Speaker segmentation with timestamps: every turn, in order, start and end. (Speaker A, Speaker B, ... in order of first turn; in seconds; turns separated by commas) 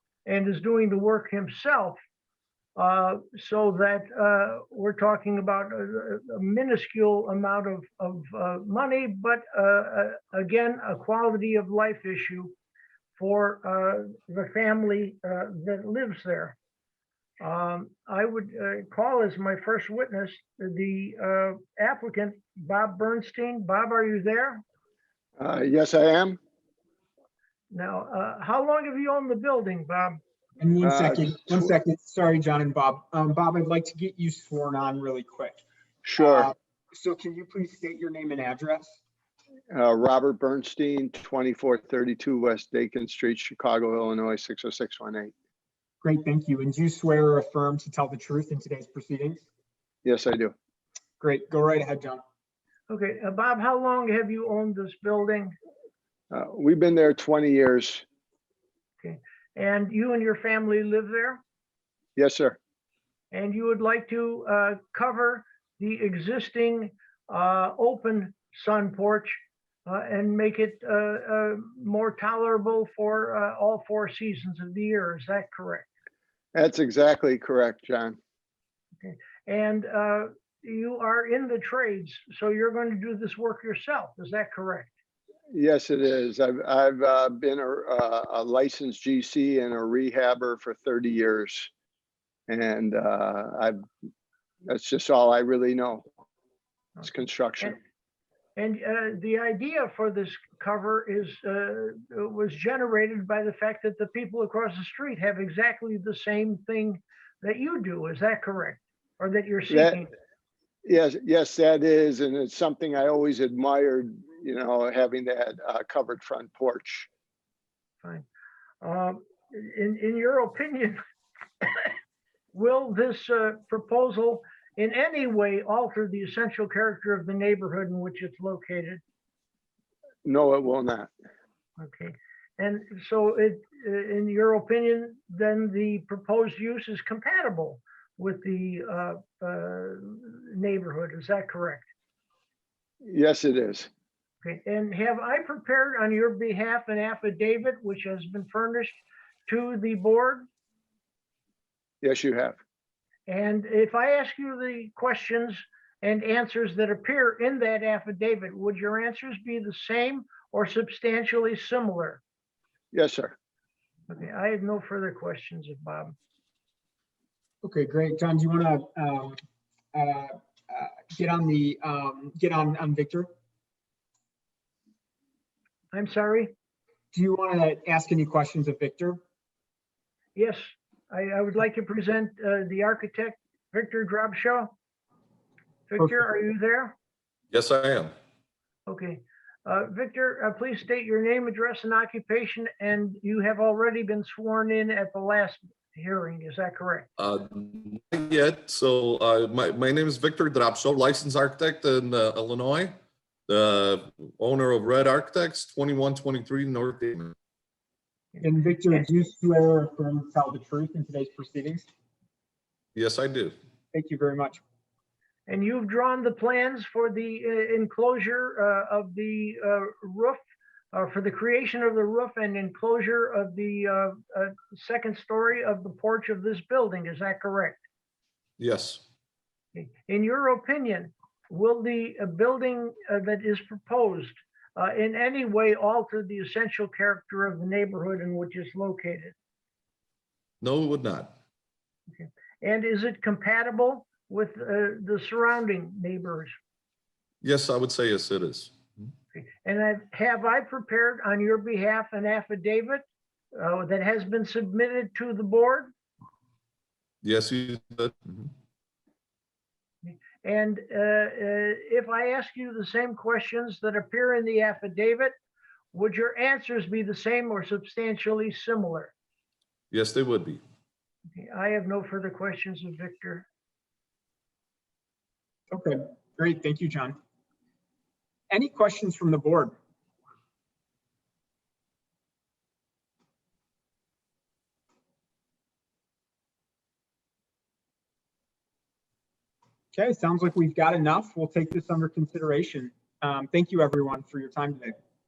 Speaker A: 0.2-2.0, Speaker A: 2.8-12.5, Speaker A: 13.2-16.6, Speaker A: 17.4-24.6, Speaker B: 25.4-26.4, Speaker A: 27.7-30.2, Speaker C: 30.6-35.6, Speaker B: 30.8-31.7, Speaker B: 36.0-36.5, Speaker C: 36.2-38.9, Speaker B: 39.7-45.3, Speaker C: 46.0-49.4, Speaker B: 50.0-50.5, Speaker C: 51.2-52.2, Speaker A: 52.9-55.5, Speaker B: 56.3-58.0, Speaker A: 59.0-61.4, Speaker B: 62.1-62.6, Speaker A: 63.3-75.9, Speaker B: 76.5-78.2, Speaker A: 79.0-84.9, Speaker B: 85.5-91.7, Speaker B: 92.5-93.8, Speaker B: 94.7-96.0, Speaker B: 97.0-97.8, Speaker A: 98.5-110.1, Speaker B: 109.7-110.0, Speaker B: 110.8-117.1, Speaker A: 118.8-121.0, Speaker A: 121.6-121.9, Speaker A: 122.5-129.0, Speaker B: 130.2-131.1, Speaker A: 131.8-141.9, Speaker B: 143.0-143.9, Speaker A: 144.4-150.5, Speaker B: 152.0-152.6, Speaker A: 153.3-162.2, Speaker B: 162.9-163.3, Speaker A: 164.1-166.1, Speaker C: 167.6-169.4, Speaker C: 169.9-173.3, Speaker A: 175.9-176.5, Speaker C: 177.1-179.2, Speaker A: 180.3-184.7, Speaker A: 185.9-186.9, Speaker D: 187.5-188.1, Speaker A: 188.9-197.1, Speaker D: 197.2-202.9, Speaker D: 203.5-207.3, Speaker C: 208.4-211.8, Speaker D: 212.9-213.6, Speaker C: 213.9-214.6, Speaker A: 215.5-220.4, Speaker A: 220.9-227.8, Speaker D: 228.6-229.0, Speaker A: 229.7-239.3, Speaker D: 240.6-241.3, Speaker A: 242.1-246.5, Speaker D: 247.4-249.1, Speaker A: 249.3-255.9, Speaker D: 257.2-258.5, Speaker A: 260.0-265.3, Speaker A: 265.9-269.1, Speaker D: 269.9-270.6, Speaker A: 271.3-273.4, Speaker C: 275.7-277.2, Speaker C: 278.5-279.7, Speaker C: 289.9-294.9